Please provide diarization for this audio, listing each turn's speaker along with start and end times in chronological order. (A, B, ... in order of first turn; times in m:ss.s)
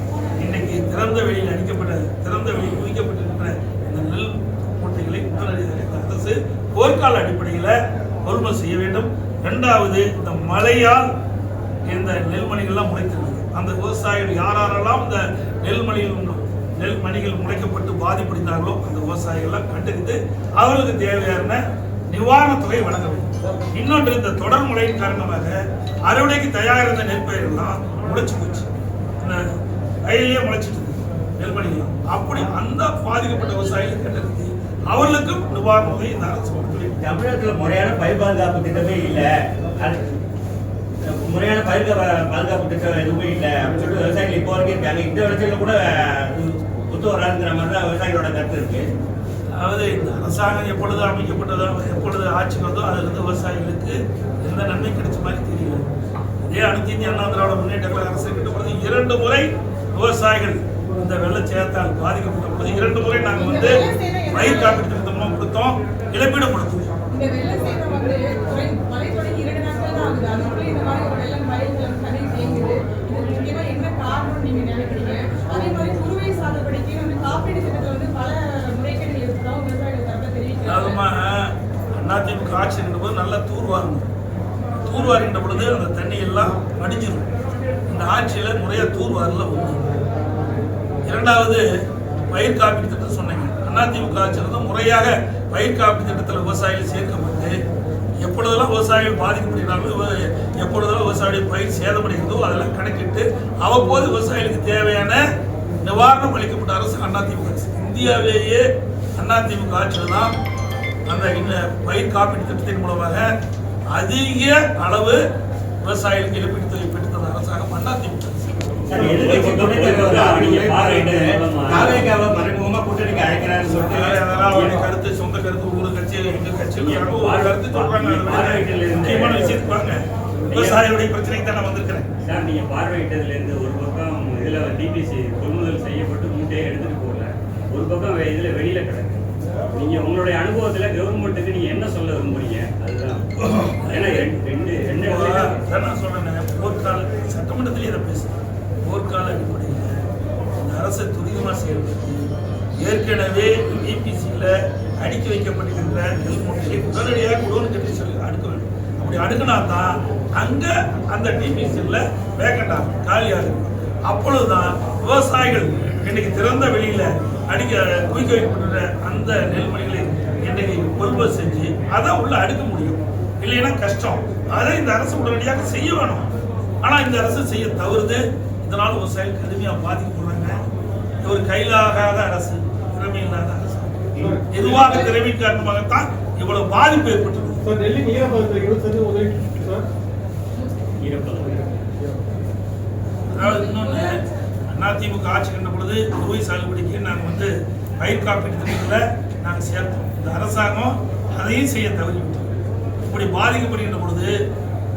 0:00.4-0:11.1 A
0:11.8-0:28.7 A
0:30.0-0:37.0 A
0:37.0-0:40.0 B
0:41.0-0:48.9 B
0:49.5-0:55.8 A
0:56.5-1:06.8 A
1:03.3-1:04.8 C
1:07.1-1:21.0 C
1:20.7-1:24.1 A
1:24.8-1:27.3 A
1:27.9-1:29.8 A
1:31.0-1:31.6 A
1:32.3-1:37.6 A
1:38.2-1:45.2 A
1:45.8-1:50.3 A
1:51.0-1:53.3 A
1:53.9-1:55.2 A
1:55.8-1:58.5 A
1:58.8-2:04.6 B
1:58.9-2:02.1 D
2:03.7-2:12.1 A
2:06.8-2:09.6 D
2:10.4-2:10.8 D
2:12.2-2:23.2 D
2:23.4-2:24.2 A
2:23.8-2:25.6 D
2:25.0-2:29.9 A
2:30.5-2:32.3 A
2:32.8-2:56.3 A
2:56.8-3:00.6 A
3:01.2-3:04.0 A
3:04.2-3:04.8 E
3:04.5-3:07.6 A
3:04.6-3:05.2 C
3:07.6-3:09.9 E
3:11.0-3:11.7 D
3:13.3-3:14.2 A
3:13.4-3:14.3 C
3:14.7-3:22.5 A
3:23.1-3:24.3 A